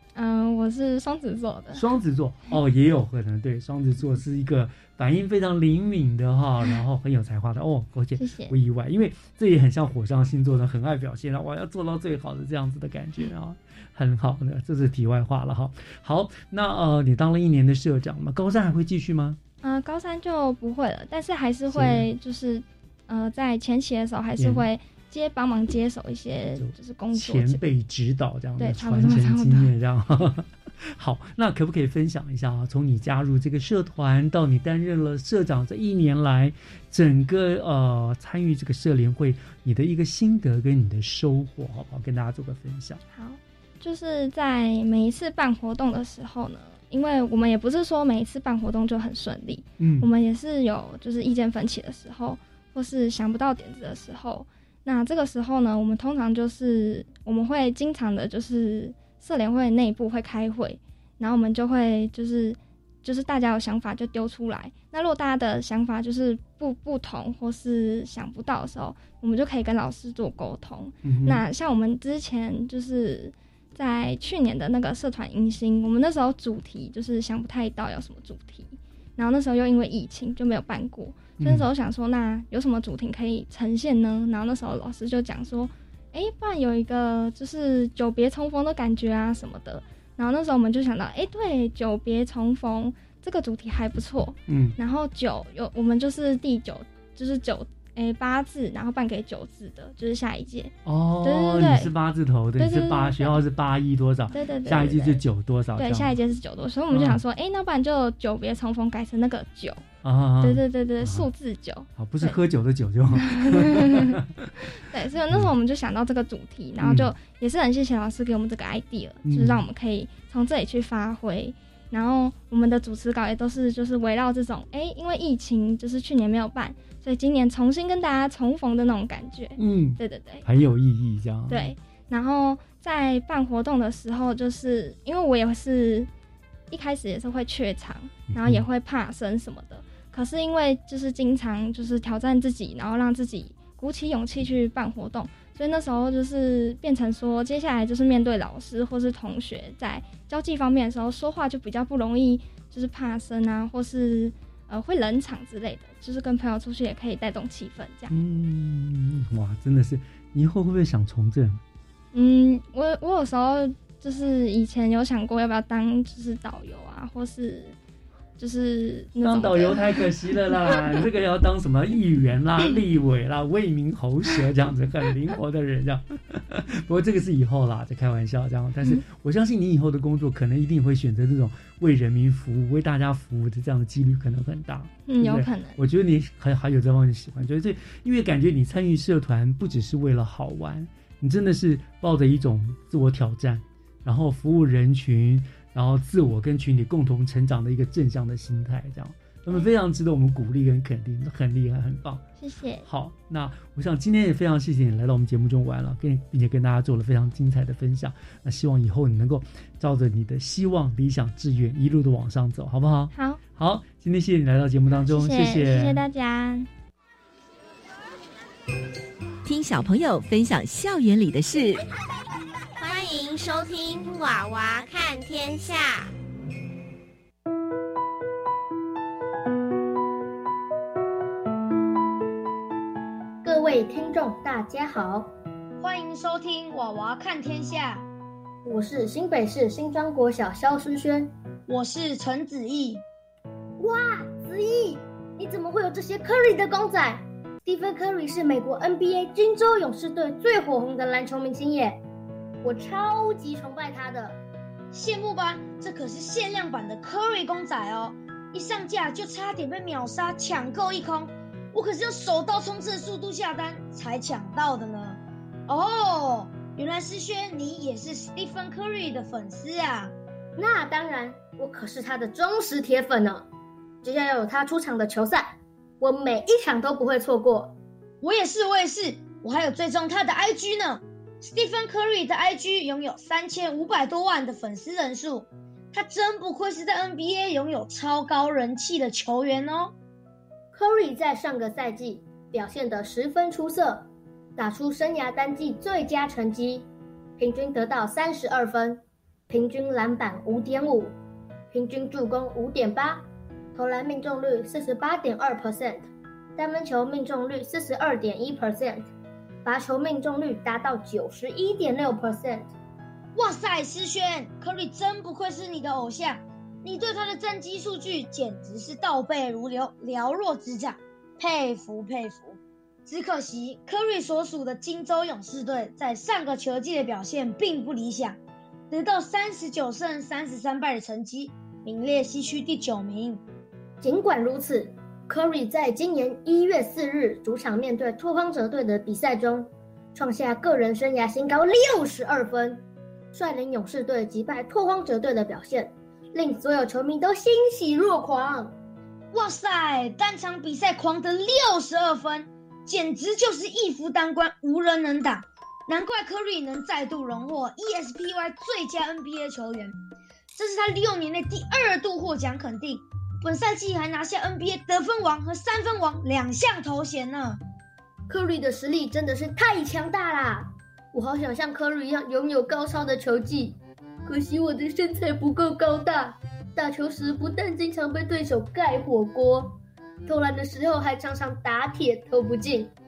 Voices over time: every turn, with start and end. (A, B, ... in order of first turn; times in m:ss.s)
0:00.2-0:01.9 A
0:01.7-0:19.4 B
0:08.2-0:08.6 A
0:19.6-0:27.6 A
0:21.7-0:22.1 B
0:24.4-0:24.7 B
0:26.5-0:43.0 B
0:28.6-0:29.7 A
0:43.1-1:41.9 A
0:49.8-0:50.1 B
1:11.0-1:11.4 B
1:21.4-1:21.7 B
1:34.5-1:34.8 B
1:40.8-1:46.2 B
1:42.6-1:43.4 A
1:44.3-1:45.2 A
1:45.8-1:49.8 A
1:46.9-1:47.2 B
1:50.0-1:51.3 B
1:50.4-1:52.4 A
1:52.0-1:54.5 B
1:53.2-2:10.5 A
1:56.8-1:57.1 B
1:59.2-1:59.6 B
2:09.6-2:11.8 B
2:11.5-2:16.1 A
2:16.7-2:38.1 A
2:18.3-2:18.6 B
2:38.1-2:41.6 B
2:42.1-2:47.8 A
2:48.4-2:49.8 A
2:49.2-3:22.2 B
3:05.1-3:05.8 A
3:22.4-3:22.9 A
3:22.8-3:36.0 B
3:33.1-3:33.4 A
3:35.0-3:36.7 A
3:39.4-3:41.9 C
3:42.8-3:46.1 D
3:53.4-3:55.3 E
3:55.8-3:58.1 F
3:58.7-4:01.3 E
4:01.7-4:03.0 F
4:03.8-4:12.0 E
4:12.6-4:14.4 E
4:14.9-4:30.1 F
4:30.6-4:33.4 E
4:34.0-4:37.8 E
4:38.2-4:49.9 F
4:50.7-5:01.2 E
5:01.7-5:09.1 E
5:09.6-5:12.7 E
5:13.4-5:28.4 F
5:28.9-5:33.4 F
5:34.0-5:42.8 E
5:43.3-5:48.8 E
5:49.3-6:00.0 F
6:00.5-6:07.6 F
6:08.3-6:22.9 E